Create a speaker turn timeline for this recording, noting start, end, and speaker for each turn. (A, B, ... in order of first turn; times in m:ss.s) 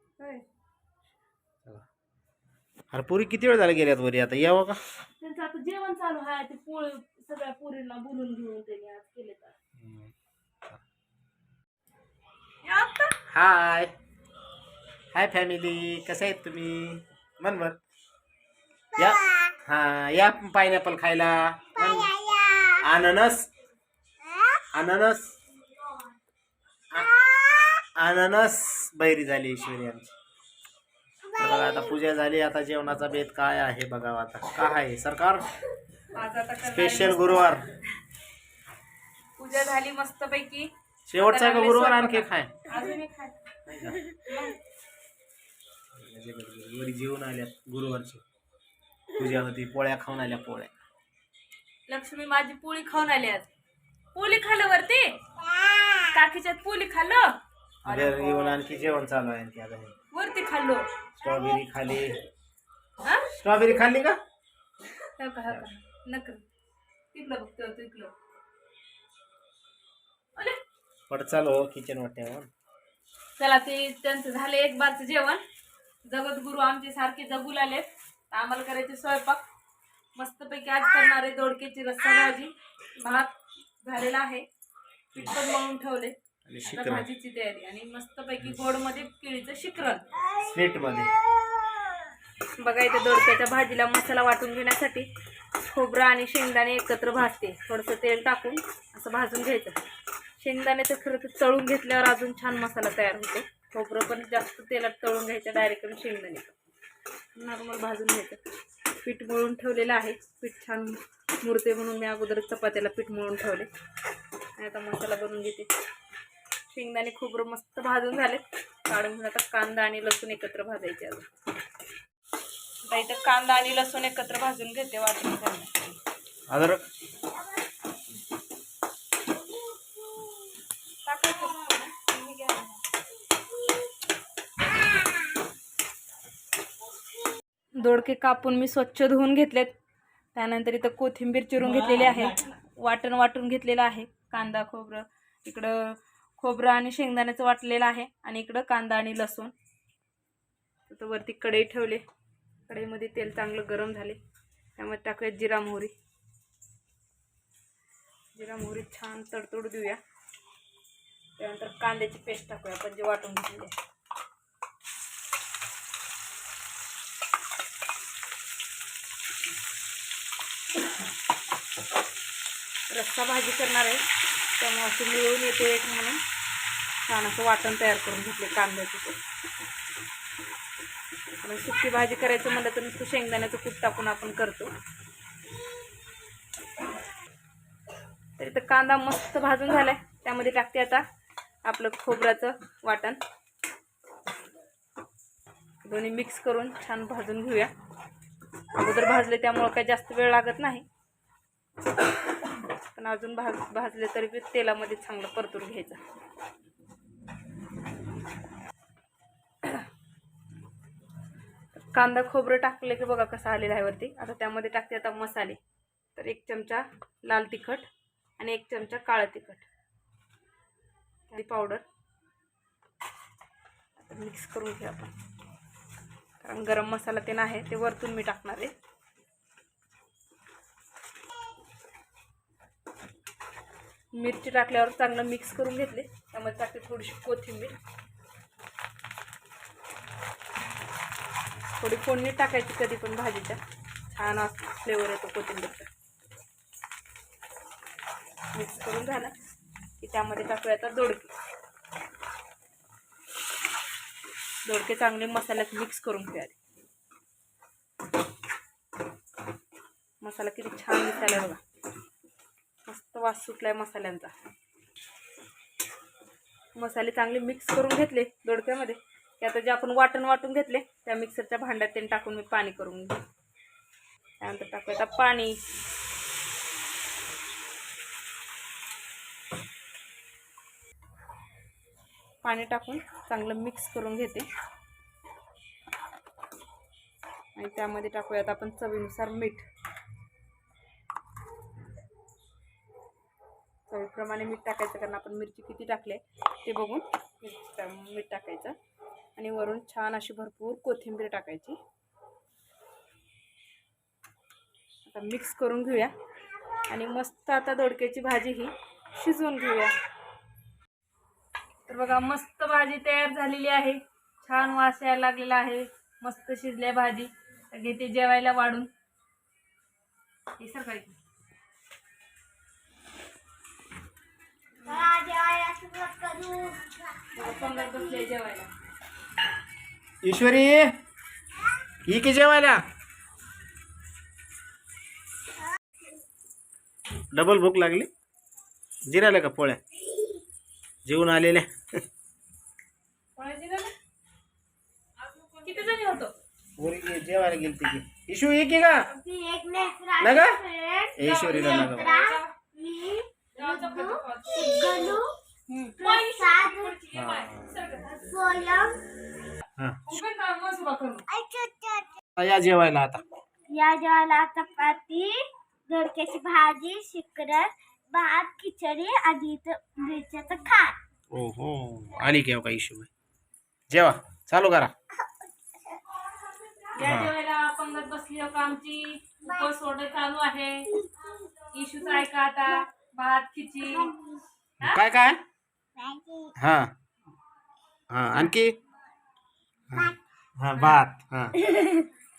0:00.2-0:00.4 A
0:02.9-0:04.8 B
0:05.2-0:09.6 A
0:09.8-0:10.1 B
0:12.6-0:13.2 A
0:13.3-0:13.9 B
0:15.1-0:17.8 B
0:19.0-0:19.5 C
0:19.0-0:22.1 B
0:21.8-0:22.8 C
0:22.8-0:23.5 B
0:24.2-0:24.6 C
0:24.7-0:25.4 B
0:27.1-0:27.8 C
0:28.0-0:30.1 B
0:31.2-0:31.9 C
0:31.4-0:35.5 B
0:36.1-0:37.7 A
0:36.7-0:37.6 B
0:39.4-0:43.6 A
0:41.1-0:42.5 B
0:43.7-0:44.1 B
0:44.2-0:44.6 A
0:45.9-0:48.2 B
0:49.1-0:50.7 B
0:51.9-0:53.5 A
0:54.1-0:55.2 A
0:55.7-0:55.9 C
0:56.0-0:58.7 A
0:57.8-0:59.9 B
1:00.1-1:00.9 A
1:01.2-1:02.2 B
1:03.0-1:03.3 A
1:03.3-1:04.2 B
1:05.2-1:06.4 A
1:07.1-1:08.1 A
1:11.1-1:12.5 B
1:13.4-1:15.4 A
1:16.0-1:19.4 A
1:20.2-1:24.5 A
1:25.1-1:30.1 A
1:26.5-1:27.1 B
1:30.2-1:32.0 C
1:30.4-1:31.1 B
1:32.6-1:35.1 A
1:35.6-1:39.8 A
1:40.4-1:46.6 A
1:47.3-1:48.4 A
1:49.0-1:53.7 A
1:54.6-1:55.7 A
1:56.7-2:01.3 A
2:02.8-2:06.0 A
2:06.5-2:06.8 B
2:09.6-2:10.4 C
2:11.0-2:12.8 A
2:17.8-2:19.7 A
2:20.3-2:29.5 A
2:30.9-2:32.0 A
2:32.7-2:34.2 A
2:34.8-2:35.9 A
2:38.3-2:40.0 A
2:41.4-2:43.8 A
2:52.9-2:54.0 A
2:54.6-2:56.2 A
2:57.0-2:59.2 A
3:01.4-3:04.7 A
3:08.4-3:11.0 A
3:11.6-3:13.2 A
3:15.8-3:17.7 A
3:18.7-3:20.8 A
3:22.9-3:26.0 A
3:31.8-3:35.6 A
3:36.2-3:37.9 A
3:38.4-3:39.7 A
3:41.3-3:41.8 A
3:44.0-3:45.1 A
3:46.4-3:48.7 A
3:54.1-3:57.8 A
4:01.8-4:03.6 A
4:04.1-4:05.9 A
4:08.5-4:09.3 A
4:10.0-4:11.3 A
4:14.7-4:16.6 A
4:20.2-4:21.6 A
4:22.9-4:24.3 A
4:26.8-4:33.2 A
4:34.4-4:35.6 A
4:42.4-4:44.5 A
4:47.5-4:49.6 A
4:53.9-4:58.8 A
4:59.4-5:01.8 A
5:05.0-5:06.1 A
5:06.9-5:09.9 A
5:11.9-5:18.9 A
5:20.6-5:21.2 A
5:24.8-5:28.3 C
5:27.4-5:28.7 A
5:30.2-5:31.0 B
5:32.0-5:32.8 B
5:37.3-5:38.1 B
5:39.0-5:39.8 B
5:41.0-5:42.0 B
5:43.4-5:43.9 A
5:45.6-5:46.3 A
5:46.8-5:49.1 B
5:49.1-5:55.4 C
5:50.2-5:50.6 B
5:51.2-5:52.1 B
5:51.2-5:52.5 A
5:53.6-5:58.2 A
5:56.0-5:57.0 C
5:57.1-5:57.7 B
5:58.2-5:59.0 C
5:59.8-6:00.2 B
6:00.1-6:01.2 A
6:01.3-6:02.2 C
6:02.4-6:03.2 B
6:03.7-6:11.0 C
6:11.3-6:13.1 B
6:13.9-6:14.9 B
6:15.2-6:16.1 C
6:16.9-6:20.9 A
6:17.0-6:17.3 B
6:21.7-6:24.1 A
6:23.9-6:24.4 C
6:24.8-6:25.4 B
6:26.0-6:26.5 C
6:26.6-6:26.9 B
6:28.1-6:28.8 B
6:29.9-6:31.6 B
6:31.6-6:32.1 C